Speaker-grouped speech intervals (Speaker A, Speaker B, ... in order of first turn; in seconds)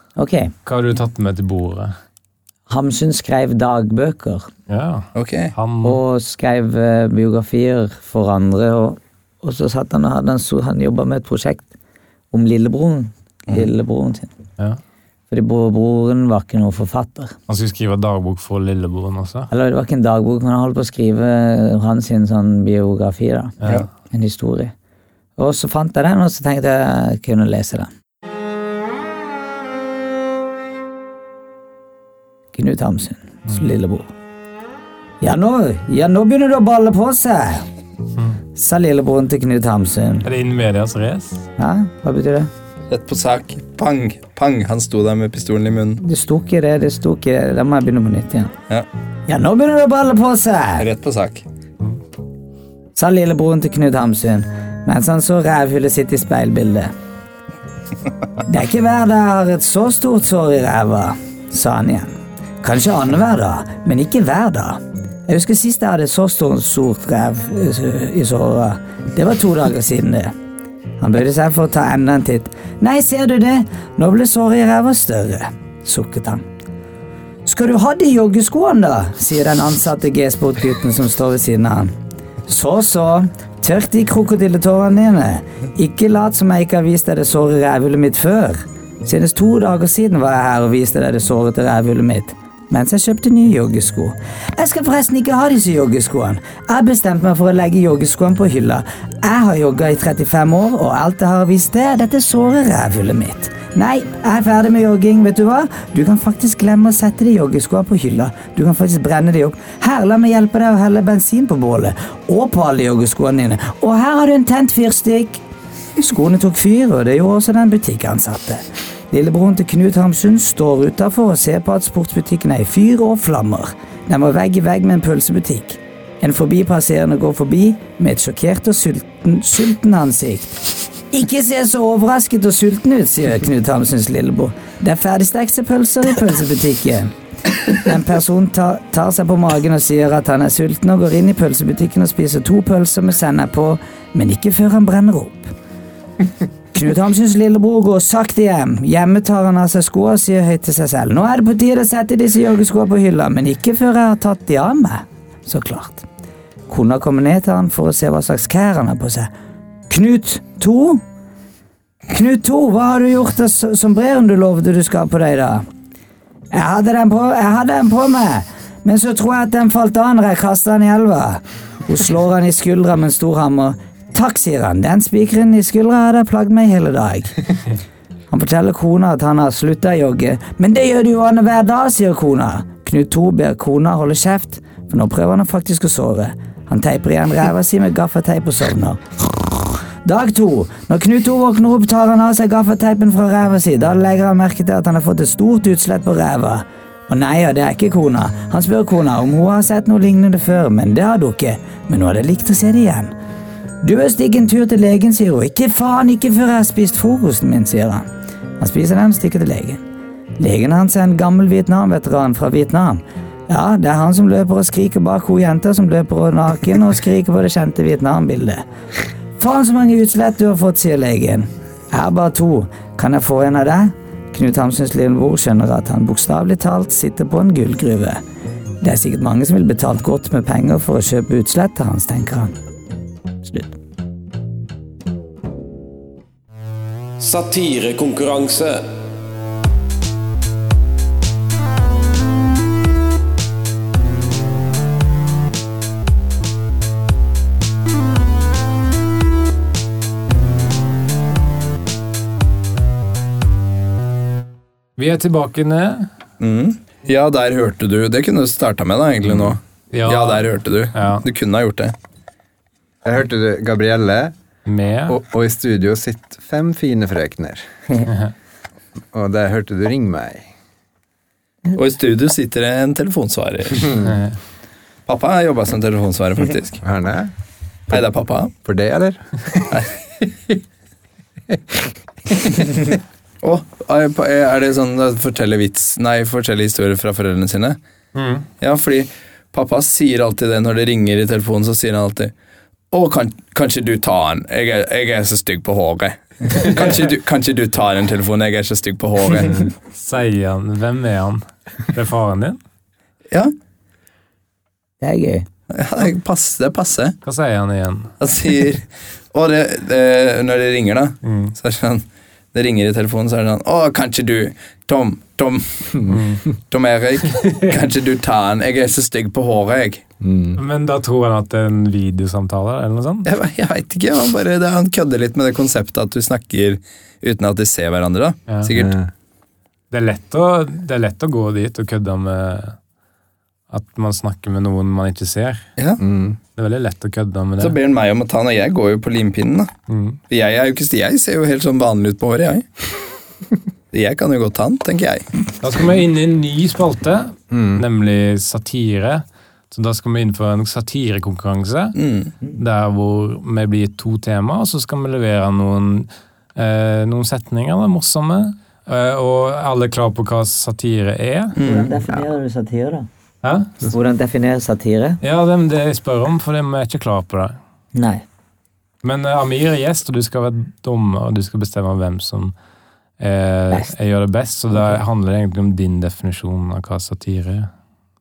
Speaker A: 0.2-0.5, 2.7-4.5, 5.8-11.7, 12.3-14.3, 15.3-17.4, 19.5-23.5, 24.1-24.7, 25.4-27.9, 32.5-34.1, 35.2-37.7, 38.5-40.3, 41.6-42.5, 46.0-48.5, 49.3-50.9, 53.0-56.9, 58.4-70.3, 71.0-76.4, 77.5-81.9, 82.5-115.4, 116.0-137.1, 137.7-145.5, 146.7-156.1, 156.7-159.3, 159.9-161.0, 162.1-165.7, 166.5-177.3, 178.3-203.1, 203.8-208.1, 208.6-209.8, 210.4-218.6, 219.4-228.2, 228.8-232.5, 233.4-233.8, 305.0-305.4, 361.6-363.1, 363.9-365.2, 367.9-368.2
Speaker B: 0.7-1.9, 4.7-6.0, 17.5-19.5, 23.6-23.9, 40.2-41.4, 237.2-238.8, 255.0-256.1, 259.9-261.2, 264.6-265.2, 274.0-274.4, 288.1-288.5, 299.9-302.6, 307.2-308.1, 311.2-311.5, 316.1-316.4, 317.4-317.7, 320.5-323.3, 329.9-332.8, 333.7-335.6, 336.6-337.8, 339.9-340.2, 345.6-361.6, 363.4-363.9, 365.2-367.5, 369.0-372.5, 373.2-377.7
Speaker C: 5.2-5.5, 42.9-46.0, 50.8-51.4, 256.4-261.9, 271.7-274.1, 275.1-276.8, 277.9-278.5, 283.4-287.8, 288.6-292.3, 292.9-299.7, 305.7-307.2, 308.2-316.1, 316.7-320.0, 323.2-328.9, 335.8-336.0, 337.6-339.7, 340.3-342.6, 343.9-345.3, 352.0-352.3, 361.6-361.9
Speaker D: 263.0-264.3, 265.1-267.6, 269.1-270.5, 276.8-277.3, 278.6-279.8, 281.5-282.8, 320.2-320.6, 328.7-329.1, 336.0-336.4, 347.5-347.8